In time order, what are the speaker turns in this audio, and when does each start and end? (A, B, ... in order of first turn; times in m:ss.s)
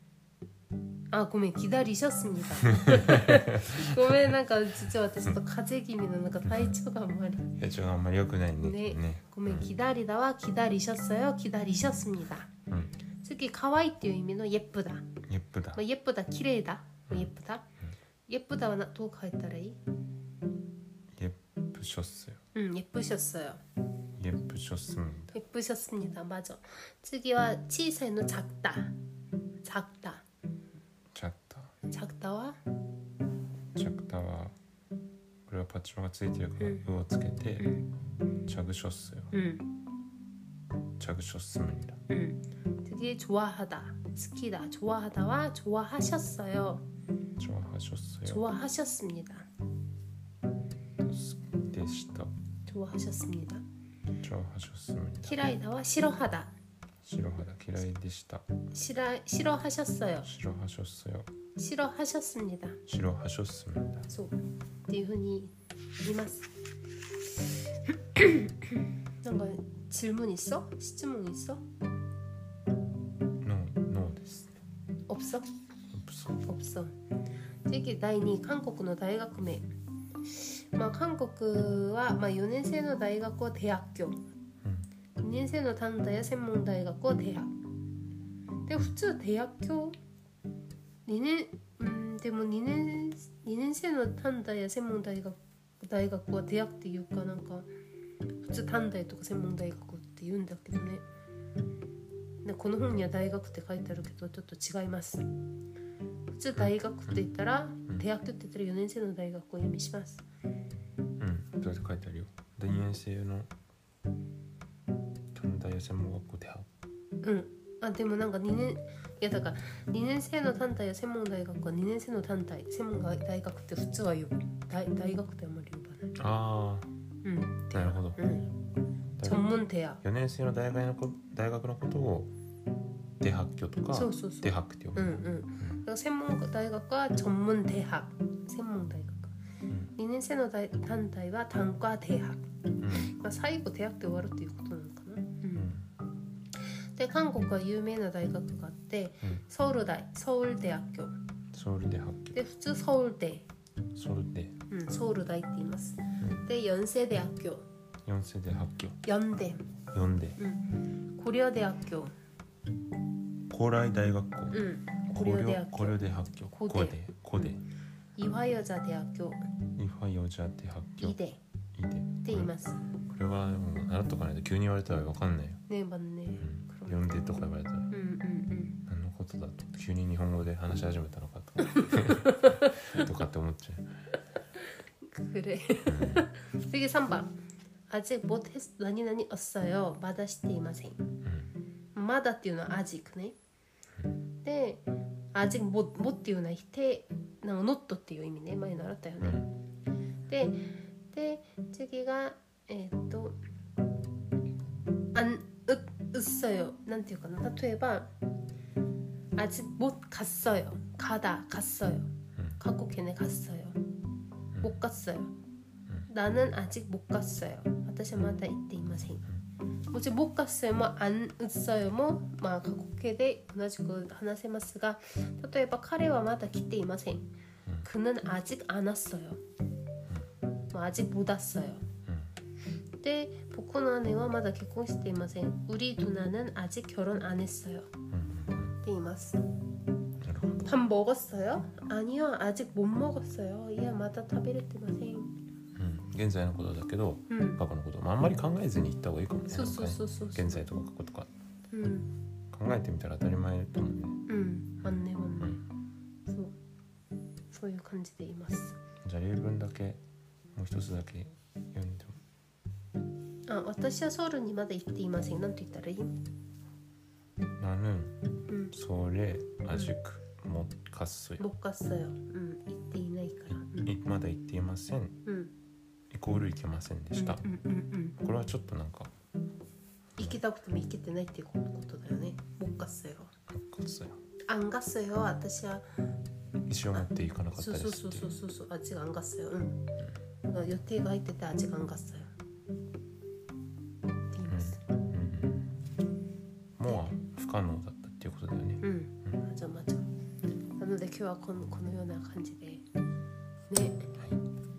0:01.1-0:07.5 A
0:02.7-0:04.1 B
0:06.5-0:06.7 B
0:07.6-0:09.7 B
0:08.6-0:12.5 A
0:12.7-0:12.9 B
0:13.2-0:15.1 A
0:15.3-0:15.8 B
0:15.7-0:17.6 A
0:18.3-0:19.8 A
0:21.1-0:22.4 B
0:22.5-0:23.6 A
0:24.2-0:25.3 B
0:25.3-0:28.9 A
0:29.6-0:30.2 A
0:31.1-0:31.7 B
0:31.9-0:32.6 A
0:33.7-0:34.6 B
0:35.5-0:37.7 B
0:37.6-0:37.8 A
0:38.5-0:39.3 B
0:39.3-0:39.6 A
0:41.0-0:42.0 B
0:42.1-0:46.8 A
0:47.4-0:48.5 B
0:48.2-0:49.5 A
0:51.0-0:52.3 B
0:52.6-0:53.6 A
0:54.2-0:55.4 B
0:55.2-0:56.5 A
0:57.0-0:58.5 B
0:58.7-1:00.3 A
1:00.2-1:01.3 B
1:01.6-1:02.8 A
1:02.9-1:04.1 B
1:04.1-1:06.5 A
1:08.2-1:11.6 A
1:13.4-1:14.6 B
1:15.1-1:15.5 A
1:15.9-1:16.4 B
1:16.4-1:16.9 A
1:17.6-1:19.7 A
1:20.4-1:24.2 A
1:24.6-1:24.9 B
1:25.2-1:27.5 A
1:28.6-1:30.0 A
1:31.0-1:37.7 A
1:38.4-1:41.0 A
1:42.4-1:45.3 A
1:46.3-1:50.2 A
1:51.2-1:53.5 B
1:55.3-1:56.7 B
1:57.2-2:06.2 A
2:06.2-2:06.9 B
2:07.2-2:08.5 A
2:07.7-2:08.2 B
2:09.2-2:09.5 B
2:09.2-2:10.0 A
2:10.0-2:12.3 B
2:13.2-2:15.8 B
2:13.9-2:19.3 A
2:19.7-2:19.9 B
2:20.0-2:25.7 A
2:22.8-2:23.1 B
2:25.5-2:25.9 B
2:27.0-2:31.2 A
2:31.5-2:32.4 B
2:32.3-2:33.4 A
2:33.9-2:34.5 B
2:34.7-2:37.6 A
2:38.0-2:39.0 B
2:39.0-2:39.7 A
2:39.9-2:40.4 B
2:40.4-2:42.1 A
2:43.5-2:47.6 B
2:44.5-2:47.6 A
2:48.2-2:49.4 A
2:49.8-2:51.2 B
2:51.0-2:51.4 A
2:51.7-2:52.5 B
2:52.2-2:52.8 A
2:53.0-2:55.6 B
2:55.7-2:57.1 A
2:56.4-2:57.9 B
2:57.9-2:58.8 A
2:58.8-3:03.9 B
3:05.0-3:07.3 A
3:05.8-3:06.3 B
3:07.9-3:11.0 A
3:11.2-3:11.5 B
3:11.9-3:13.4 A
3:14.4-3:19.4 A
3:19.2-3:19.5 B
3:20.3-3:23.4 A
3:25.1-3:28.1 A
3:29.4-3:33.8 A
3:34.6-3:35.3 A
3:36.1-3:39.3 A
3:39.9-3:47.3 A
3:47.8-3:49.4 A
3:50.7-3:51.8 A
3:52.0-3:52.3 B
3:53.0-3:57.9 A
3:58.1-3:58.8 B
3:58.8-3:59.4 A
4:00.2-4:00.7 B
4:00.6-4:05.3 A
4:05.8-4:11.3 B
4:07.3-4:07.6 A
4:09.5-4:10.6 A
4:11.7-4:12.1 A
4:12.5-4:14.2 B
4:14.3-4:15.6 A
4:14.8-4:15.6 B
4:16.2-4:16.5 A
4:17.5-4:18.8 A
4:19.0-4:20.0 B
4:20.5-4:22.2 B
4:23.5-4:26.1 A
4:27.6-4:28.2 B
4:28.5-4:28.7 A
4:28.7-4:31.4 B
4:31.4-4:33.9 A
4:33.8-4:35.2 B
4:35.2-4:35.5 A
4:36.1-4:37.4 B
4:37.2-4:38.2 A
4:38.2-4:39.1 B
4:40.2-4:43.3 A
4:43.5-4:44.2 B
4:44.5-4:45.9 A
4:46.7-4:48.3 B
4:47.0-4:49.9 A
4:50.4-4:52.3 A
4:54.3-4:54.8 A
4:54.5-4:55.7 B
4:56.8-4:59.4 B
4:56.8-4:57.1 A
4:58.8-5:00.0 A
5:00.8-5:02.8 A
5:03.7-5:04.1 A